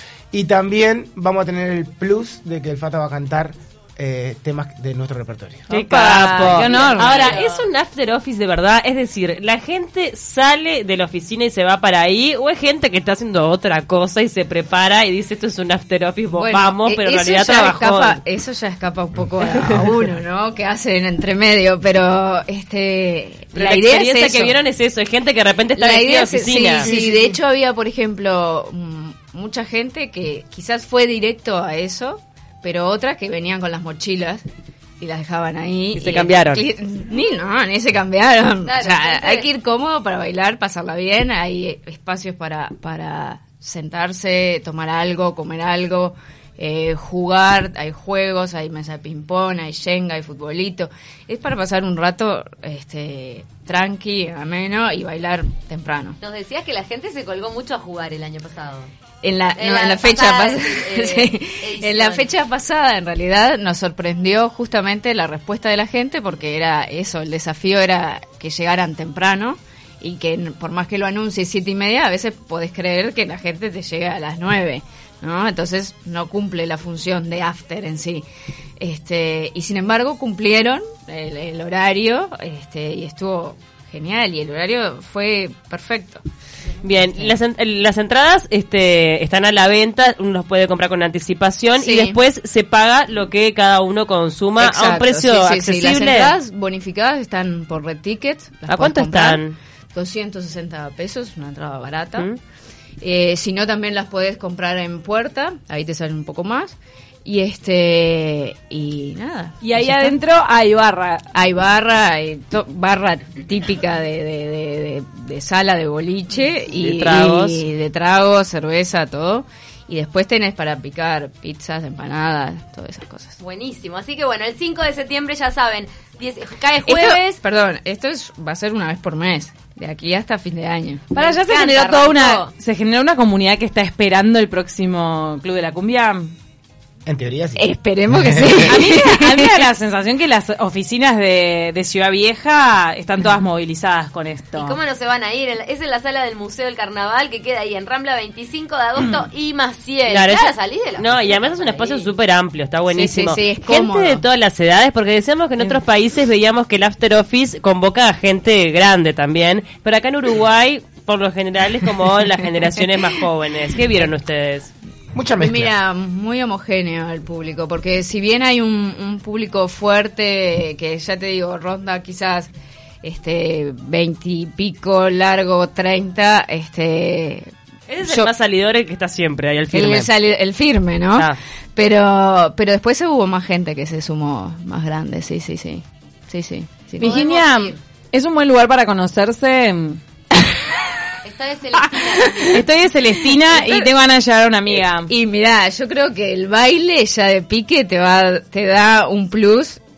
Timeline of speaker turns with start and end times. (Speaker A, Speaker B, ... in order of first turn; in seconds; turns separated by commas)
Speaker A: 0.3-5.7, Speaker B: 5.7-7.3, Speaker C: 5.7-18.2, Speaker D: 6.5-7.7, Speaker E: 16.3-24.5, Speaker C: 23.5-26.9, Speaker E: 25.8-34.4, Speaker E: 35.0-56.2, Speaker C: 35.9-36.6, Speaker D: 38.6-39.5, Speaker D: 56.2-58.9, Speaker E: 59.2-78.2, Speaker D: 59.5-62.3, Speaker E: 78.8-86.2, Speaker C: 86.8-96.3, Speaker E: 91.7-92.2, Speaker E: 94.6-102.3, Speaker C: 98.7-99.6, Speaker E: 103.0-110.2, Speaker B: 109.6-111.3, Speaker E: 111.3-123.4, Speaker C: 116.8-117.6, Speaker D: 123.4-127.4, Speaker E: 126.8-131.1, Speaker B: 131.1-136.3, Speaker D: 131.2-132.5, Speaker A: 137.1-138.6, Speaker E: 137.6-139.7, Speaker B: 138.7-144.8, Speaker D: 144.5-152.1, Speaker C: 150.1-164.7, Speaker E: 152.9-154.2, Speaker A: 165.1-165.7, Speaker E: 165.4-172.5, Speaker E: 173.0-177.5, Speaker C: 177.9-180.1, Speaker E: 178.0-178.3, Speaker E: 179.7-187.2, Speaker B: 187.0-190.0, Speaker D: 187.0-187.8, Speaker D: 191.2-192.6, Speaker E: 191.8-192.6, Speaker B: 192.5-195.1, Speaker E: 193.5-193.9, Speaker E: 195.1-199.8